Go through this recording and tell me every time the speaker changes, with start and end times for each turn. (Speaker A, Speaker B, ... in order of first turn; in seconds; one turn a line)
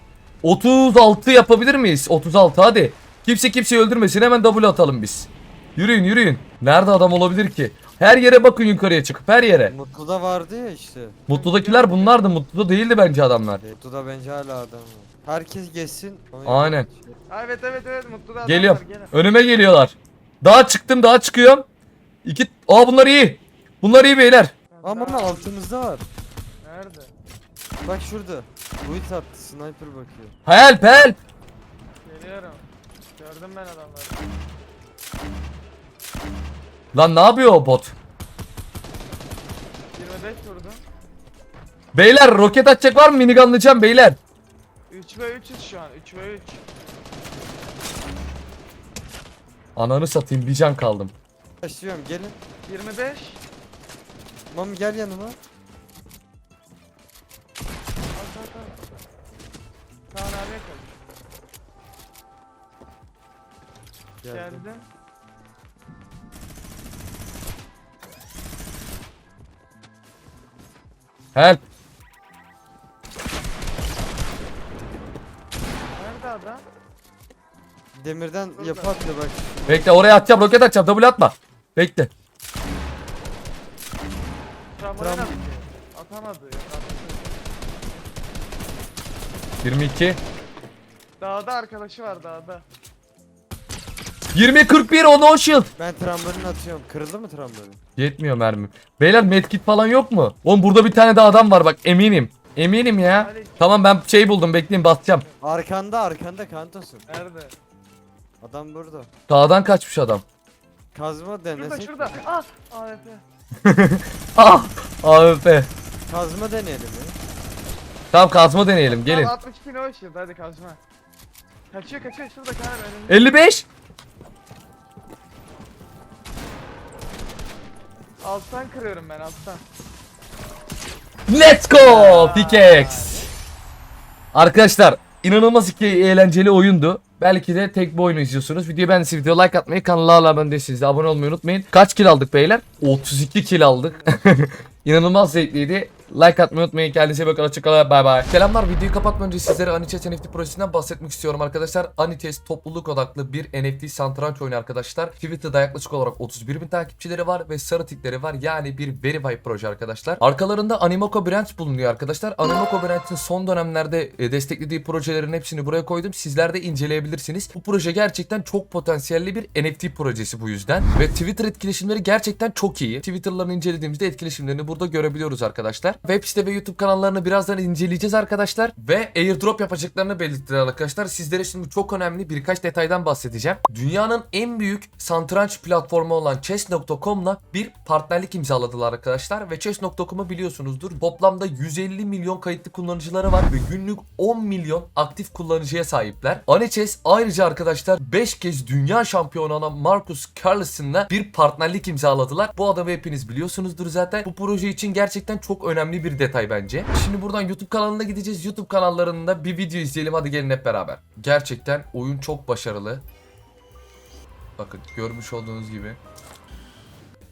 Speaker A: 0.4-9.7
Speaker B: 9.7-11.2
Speaker A: 11.3-13.6
Speaker C: 11.3-12.3
Speaker B: 13.6-17.2
Speaker A: 16.5-16.9
Speaker C: 17.3-19.1
Speaker A: 18.4-21.7
Speaker A: 22.2-24.5
Speaker C: 24.7-25.5
Speaker B: 24.8-26.1
Speaker C: 26.6-27.1
Speaker B: 27.9-30.3
Speaker A: 30.5-31.2
Speaker C: 32.0-32.6
Speaker C: 33.2-34.2
Speaker A: 36.9-37.9
Speaker C: 39.9-40.8
Speaker A: 41.9-44.2
Speaker C: 44.9-46.6
Speaker A: 49.8-51.1
Speaker B: 51.6-52.4
Speaker C: 52.7-53.4
Speaker B: 54.5-55.4
Speaker C: 58.1-58.9
Speaker C: 60.1-61.1
Speaker B: 64.2-64.7
Speaker C: 64.3-64.9
Speaker A: 71.3-71.6
Speaker C: 75.9-76.7
Speaker B: 78.0-80.0
Speaker C: 78.6-79.0
Speaker A: 79.7-82.1
Speaker C: 84.8-87.4
Speaker B: 85.0-85.4
Speaker A: 89.6-90.2
Speaker C: 91.2-92.7
Speaker A: 94.3-95.7
Speaker B: 95.8-97.8
Speaker A: 98.0-105.3
Speaker C: 103.1-103.8
Speaker B: 105.4-107.0
Speaker C: 107.1-107.6
Speaker B: 108.4-109.1
Speaker A: 109.3-110.2
Speaker B: 110.9-112.2
Speaker C: 111.5-113.2
Speaker A: 113.6-115.7
Speaker B: 116.1-117.2
Speaker A: 118.1-119.3
Speaker C: 118.8-120.8
Speaker C: 121.7-123.4
Speaker A: 123.1-123.7
Speaker C: 128.2-129.6
Speaker A: 131.3-133.2
Speaker C: 131.8-133.3
Speaker A: 134.3-213.0
Speaker A: 214.6-216.0